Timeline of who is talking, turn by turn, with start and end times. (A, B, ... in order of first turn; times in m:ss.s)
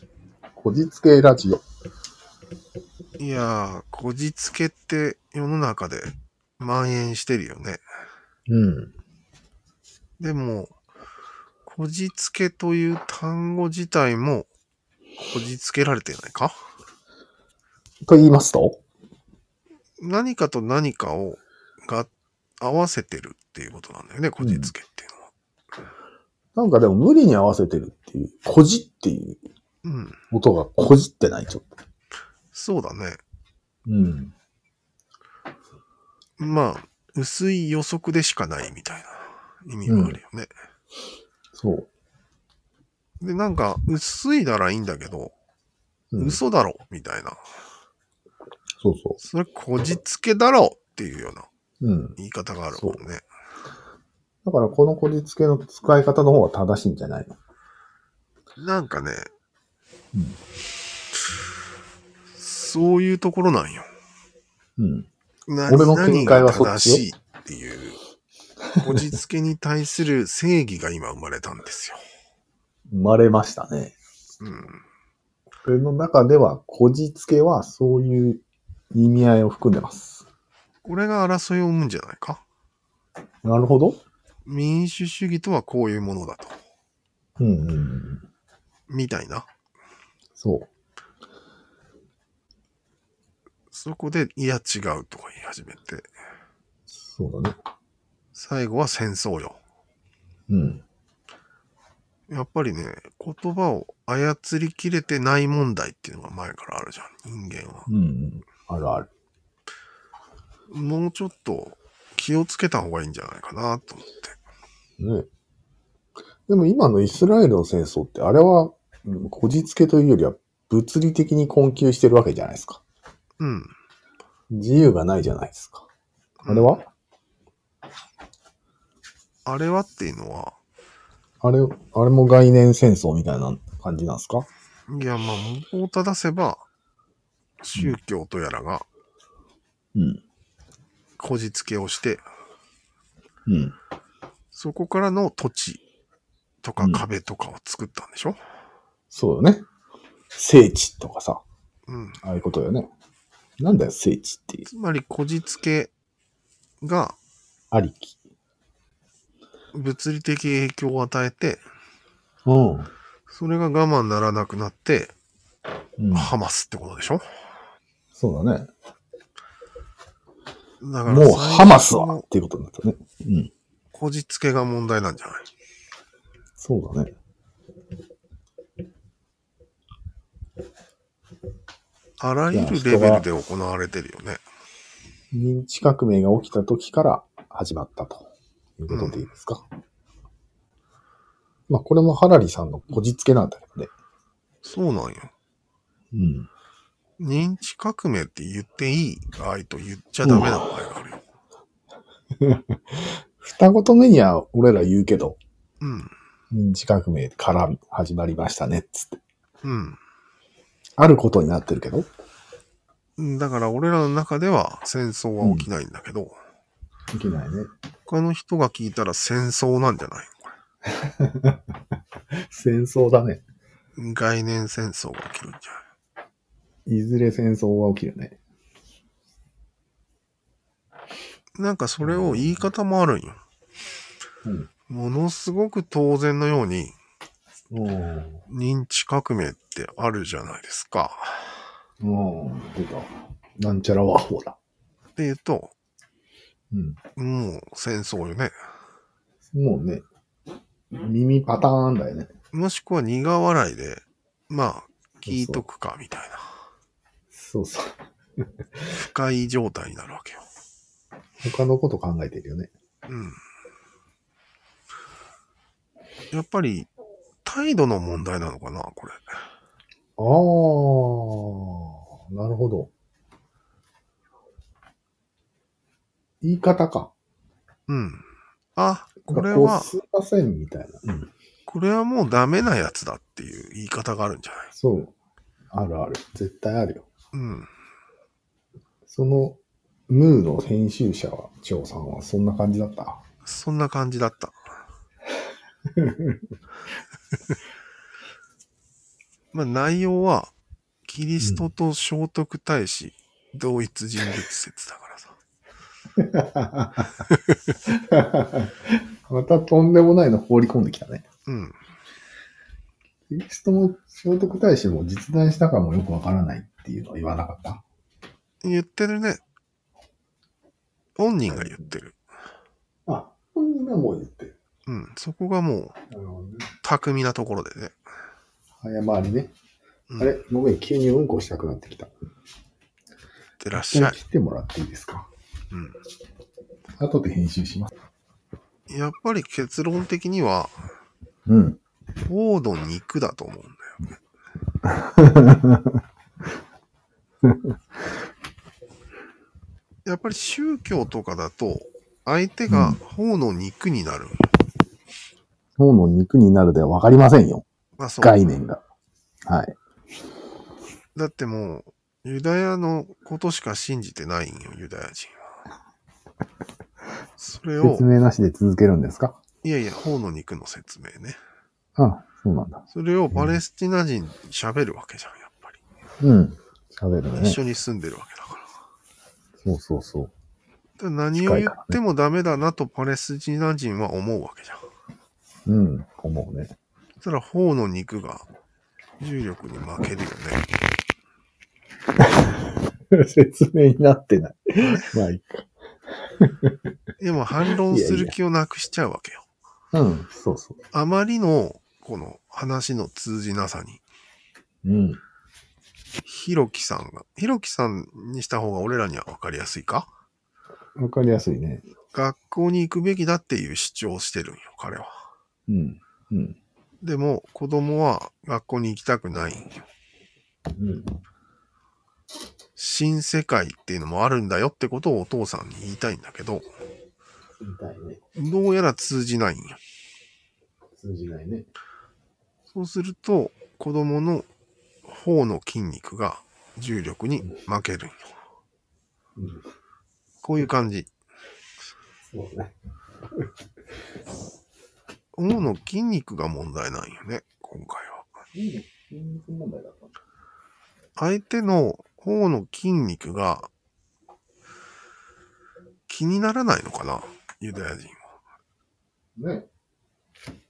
0:00.6-0:01.6 A
0:03.2-0:07.8 B
0:08.5-0:08.9 A
0:10.2-0:10.7 B
0:11.6-0:14.5 B
0:15.2-0:16.6 B
0:18.0-0:18.8 A
0:20.0-0:25.3 B
0:24.4-0:24.7 A
0:26.5-0:29.4 A
0:29.8-0:30.2 B
0:30.3-0:31.7 A
0:32.5-0:33.2 B
0:33.8-0:34.3 A
0:36.4-0:40.5 B
0:39.9-0:40.2 A
0:41.5-0:41.9 A
0:43.2-0:45.3 B
0:46.1-0:46.4 A
0:46.2-0:47.4 B
0:48.8-0:49.2 A
0:49.2-0:51.5 B
0:51.8-0:52.2 A
0:52.2-0:53.2 B
0:52.7-0:53.0 A
0:54.4-0:57.4 A
0:58.6-0:59.3 B
1:00.1-1:00.4 A
1:02.4-1:03.8 B
1:04.8-1:05.1 A
1:05.5-1:08.0 B
1:05.7-1:07.0 A
1:08.7-1:09.0 A
1:08.8-1:12.0 B
1:12.9-1:13.9 A
1:14.4-1:14.8 B
1:15.6-1:20.3 A
1:20.8-1:22.4 B
1:23.4-1:24.0 A
1:24.4-1:26.6 B
1:27.4-1:28.3 A
1:28.9-1:29.5 B
1:30.4-1:30.7 A
1:33.7-1:36.0 B
1:36.9-1:37.5 A
1:38.3-1:39.6 B
1:40.5-1:40.8 A
1:42.3-1:47.9 B
1:47.9-1:49.1 A
1:50.7-1:54.4 B
1:55.0-1:55.3 A
1:56.5-2:02.8 A
2:03.4-2:03.7 B
2:04.5-2:05.9 A
2:06.4-2:06.8 B
2:06.4-2:06.9 A
2:09.4-2:10.6 B
2:11.4-2:14.5 A
2:14.9-2:16.6 B
2:17.6-2:18.8 B
2:19.9-2:20.2 A
2:21.2-2:22.2 B
2:23.4-2:23.8 A
2:24.5-2:25.8 B
2:26.6-2:28.4 B
2:26.8-2:27.0 A
2:29.1-2:29.6 A
2:30.3-2:31.4 A
2:31.9-2:32.2 B
2:32.2-2:32.9 A
2:33.6-2:34.7 A
2:34.6-2:35.9 B
2:36.8-2:37.2 B
2:37.7-2:38.2 A
2:39.7-2:41.6 B
2:42.4-2:42.9 A
2:43.3-2:45.1 B
2:46.0-2:46.3 A
2:46.1-2:47.2 B
2:48.1-2:48.7 A
2:50.8-2:52.2 B
2:51.1-2:53.5 A
2:53.9-2:55.5 B
2:56.6-2:57.1 A
3:02.2-3:04.4 B
3:02.5-3:03.2 A
3:05.3-3:08.3 A
3:08.8-3:09.6 A
3:08.9-3:09.3 B
3:11.7-3:13.9 A
3:14.6-3:15.3 B
3:16.1-3:16.5 A
3:17.2-3:21.2 B
3:20.2-3:20.7 A
3:22.4-3:25.4 A
3:25.8-3:26.1 B
3:26.5-3:29.2 A
3:29.6-3:30.0 B
3:31.0-3:32.1 A
3:33.2-3:36.4 B
3:35.4-3:35.7 A
3:37.1-3:37.7 A
3:38.1-3:40.5 B
3:40.9-3:41.6 A
3:42.3-3:43.4 A
3:44.0-3:45.8 B
3:46.8-3:48.4 A
3:51.6-3:53.4 B
3:52.0-3:52.7 A
3:54.9-3:56.9 B
3:57.7-3:58.4 A
3:58.5-4:01.6 B
4:02.0-4:04.6 A
4:05.2-4:05.7 B
4:06.7-4:07.0 A
4:07.2-4:08.5 B
4:09.5-4:10.0 A
4:10.9-4:12.3 A
4:12.5-4:16.5 B
4:15.2-4:15.6 A
4:17.3-4:18.4 A
4:18.9-4:20.4 B
4:21.4-4:22.7 A
4:23.1-4:23.4 B
4:26.3-4:26.9 B
4:27.4-4:29.2 B
4:30.2-4:32.9 A
4:36.4-4:37.1 A
4:37.9-4:38.2 B
4:38.8-4:39.9 B
4:39.3-4:41.3 A
4:41.7-4:44.7 B
4:44.7-4:45.1 A
4:45.7-4:47.1 A
4:47.3-4:47.7 B
4:49.0-4:53.2 A
4:53.4-4:54.5 B
4:55.9-4:56.4 A
4:59.5-5:00.5 B
5:01.1-5:05.4 B
5:06.2-5:07.2 A
5:07.8-5:11.2 A
5:11.5-5:11.8 B
5:13.3-5:17.8 A
5:18.6-5:19.4 B
5:21.2-5:22.2 B
5:21.5-5:21.8 A
5:23.0-5:24.6 A
5:24.9-5:25.9 B
5:26.1-5:26.7 A
5:26.8-5:27.9 B
5:28.8-5:29.5 A
5:30.2-5:32.1 A
5:33.6-5:34.2 B
5:33.7-5:35.3 A
5:35.7-5:36.0 B
5:37.0-5:37.9 A
5:38.9-5:40.7 B
5:41.5-5:41.8 A
5:42.2-5:44.0 B
5:44.8-5:46.0 A
5:47.4-5:47.7 A
5:50.0-5:54.5 B
5:52.7-5:53.0 A
5:55.8-5:57.6 A
5:58.0-5:58.4 B
5:58.2-5:58.8 A
5:59.4-5:59.8 A
6:01.2-6:05.5 B
6:07.4-6:08.1 B
6:07.8-6:09.4 A
6:09.6-6:11.4 B
6:12.0-6:13.6 A
6:12.9-6:15.8 B
6:16.2-6:17.6 A
6:17.3-6:18.7 B
6:19.6-6:20.3 A
6:21.0-6:24.8 B
6:21.4-6:22.0 A
6:25.6-6:26.8 A
6:27.2-6:28.4 B
6:29.2-6:30.7 B
6:32.2-6:35.7 A
6:34.8-6:35.2 B
6:36.2-6:36.8 A
6:37.2-6:39.4 B
6:37.7-6:38.3 A
6:39.9-6:40.8 A
6:40.9-6:44.0 B
6:44.8-6:45.2 A
6:46.2-6:50.1 B
6:51.0-6:51.8 A
6:52.1-6:55.1 B
6:55.7-6:56.6 A
6:57.0-6:59.8 B
7:00.7-7:01.2 A
7:02.8-7:06.6 B
7:07.6-7:08.2 A
7:08.4-7:09.8 B
7:11.0-7:11.7 A
7:12.7-7:14.5 B
7:15.1-7:18.3 B
7:19.4-7:19.6 A
7:20.4-7:21.1 B
7:22.3-7:22.7 A
7:25.3-7:28.2 B
7:28.5-7:30.1 A
7:31.2-7:33.7 B
7:36.1-7:38.3 B
7:39.4-7:39.7 A